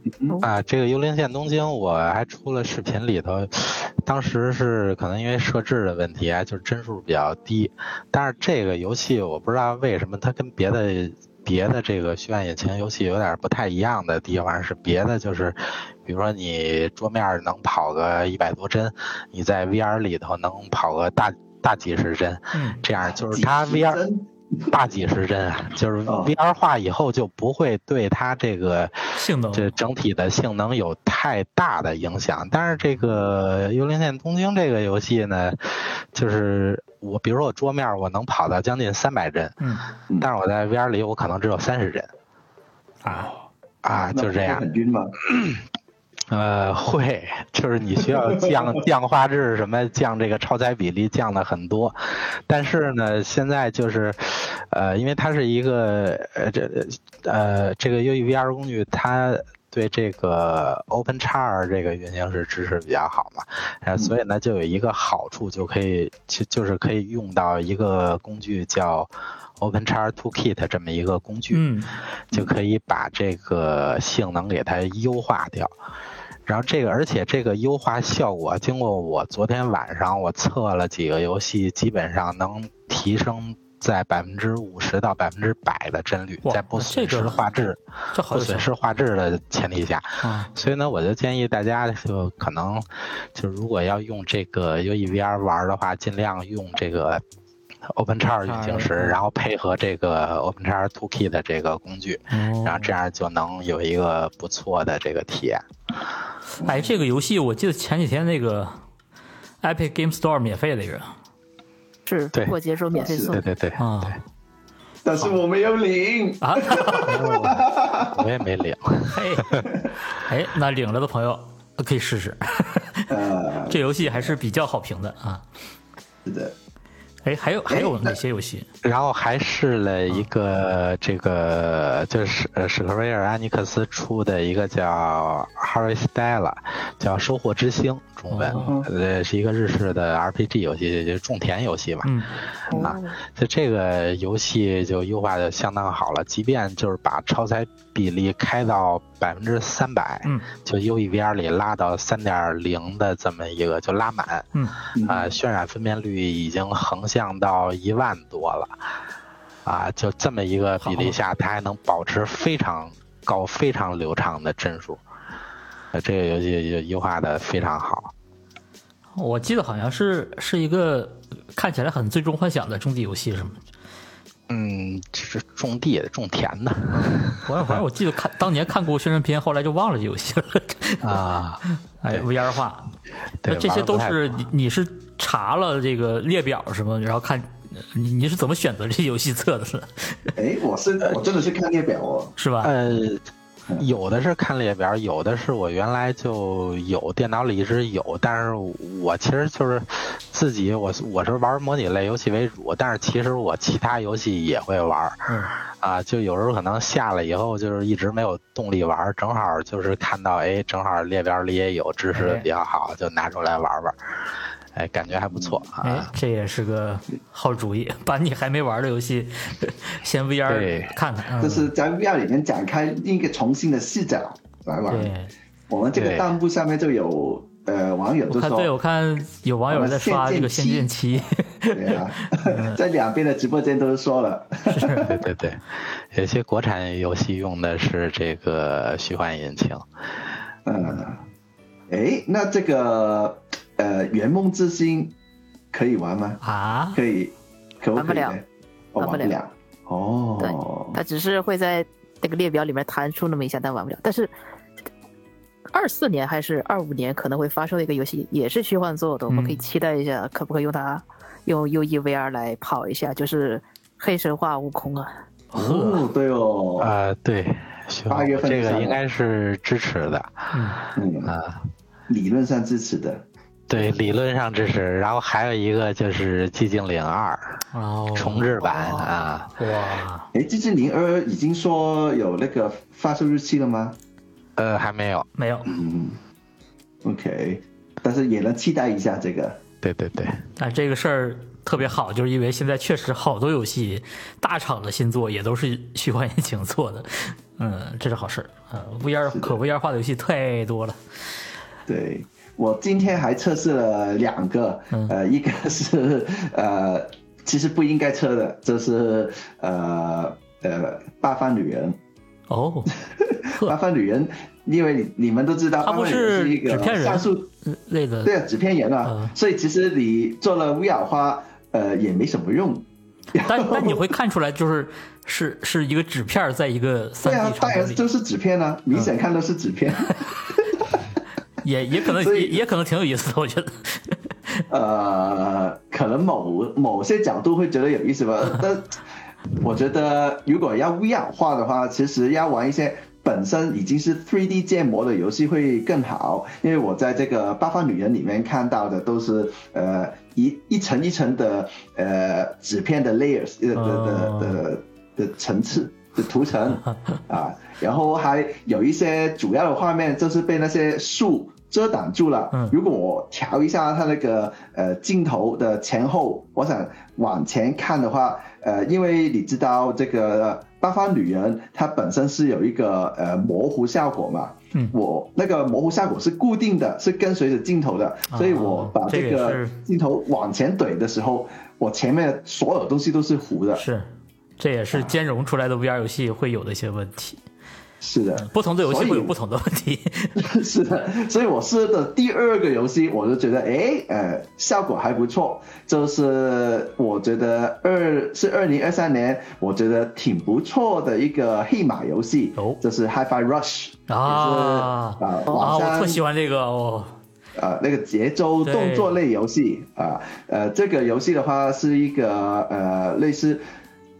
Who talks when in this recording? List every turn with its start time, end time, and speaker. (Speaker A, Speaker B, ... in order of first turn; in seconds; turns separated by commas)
Speaker A: 0.4-24.0, Speaker B: 22.5-22.8, Speaker C: 23.1-24.7, Speaker A: 24.7-39.6, Speaker C: 26.1-26.3, Speaker B: 29.1-29.7, Speaker B: 39.6-39.9, Speaker A: 40.2-42.1, Speaker B: 43.0-43.3, Speaker A: 43.8-44.6, Speaker C: 44.1-45.1, Speaker A: 45.2-45.6, Speaker A: 46.3-71.7, Speaker C: 48.1-48.5, Speaker B: 71.5-71.9, Speaker A: 72.3-75.7, Speaker A: 76.5-97.2, Speaker B: 86.4-87.4, Speaker B: 88.1-88.7, Speaker B: 90.2-90.5, Speaker A: 97.9-105.7, Speaker B: 98.5-99.2, Speaker B: 102.3-102.9, Speaker B: 106.5-108.8, Speaker C: 106.6-106.9, Speaker B: 109.6-111.2, Speaker D: 112.1-113.4, Speaker C: 112.9-113.4, Speaker A: 113.3-113.9, Speaker B: 113.8-114.2, Speaker C: 115.0-118.2, Speaker B: 116.4-117.6, Speaker A: 117.4-119.7, Speaker B: 119.1-123.2, Speaker C: 123.1-124.3, Speaker B: 123.7-125.4, Speaker C: 126.2-126.5, Speaker B: 127.2-128.7, Speaker C: 127.7-128.2, Speaker A: 128.8-142.2, Speaker B: 138.3-138.8, Speaker C: 138.5-138.9, Speaker B: 142.0-142.3, Speaker A: 142.7-158.7, Speaker C: 142.7-142.9, Speaker D: 142.7-143.1, Speaker C: 154.9-155.3, Speaker A: 159.7-165.0, Speaker B: 160.8-161.2, Speaker A: 165.9-168.1, Speaker B: 169.2-173.6, Speaker A: 174.5-177.8, Speaker B: 176.9-182.9, Speaker A: 181.0-182.3, Speaker A: 183.4-184.2, Speaker B: 183.5-190.3, Speaker C: 190.4-192.3, Speaker B: 192.4-192.7, Speaker A: 192.6-193.3, Speaker A: 193.8-214.0, Speaker B: 205.3-205.6, Speaker B: 212.1-212.5, Speaker A: 214.7-216.1, Speaker C: 215.3-215.6, Speaker B: 215.8-221.7, Speaker A: 220.5-220.9, Speaker C: 221.4-225.1, Speaker B: 224.9-225.3, Speaker C: 225.7-228.7, Speaker A: 225.9-226.3, Speaker B: 228.3-232.8, Speaker C: 229.7-230.9, Speaker C: 231.7-235.1, Speaker B: 234.7-235.2, Speaker A: 235.0-239.8, Speaker C: 240.7-241.2, Speaker C: 241.9-245.2, Speaker C: 245.7-246.4, Speaker B: 246.4-247.0, Speaker C: 246.9-251.0, Speaker D: 248.0-248.4, Speaker D: 249.0-249.3, Speaker D: 250.4-254.3, Speaker D: 255.7-265.1, Speaker B: 259.3-259.6, Speaker B: 265.5-266.1, Speaker C: 265.5-266.9, Speaker A: 266.8-270.5, Speaker C: 268.1-269.0, Speaker B: 270.5-270.8, Speaker C: 270.9-271.3, Speaker A: 271.2-271.7, Speaker C: 272.1-273.2, Speaker A: 273.7-279.5, Speaker B: 277.7-280.3, Speaker C: 280.3-284.0, Speaker A: 284.6-285.3, Speaker B: 285.4-285.7, Speaker C: 285.7-286.2, Speaker C: 287.0-289.6, Speaker A: 289.8-290.4, Speaker B: 290.6-301.0, Speaker C: 301.9-312.0, Speaker B: 312.5-313.8, Speaker C: 313.1-317.5, Speaker B: 315.8-318.3, Speaker C: 318.2-324.0, Speaker B: 319.1-319.3, Speaker B: 323.4-328.0, Speaker C: 327.2-331.1, Speaker B: 331.6-334.6, Speaker C: 332.0-332.6, Speaker C: 334.7-339.0, Speaker C: 339.6-383.8, Speaker B: 353.8-354.6, Speaker B: 378.3-379.8, Speaker B: 383.8-387.4, Speaker C: 388.0-389.3, Speaker B: 388.4-390.5, Speaker C: 390.4-406.2, Speaker B: 404.1-407.2, Speaker C: 407.6-413.6, Speaker B: 408.6-409.2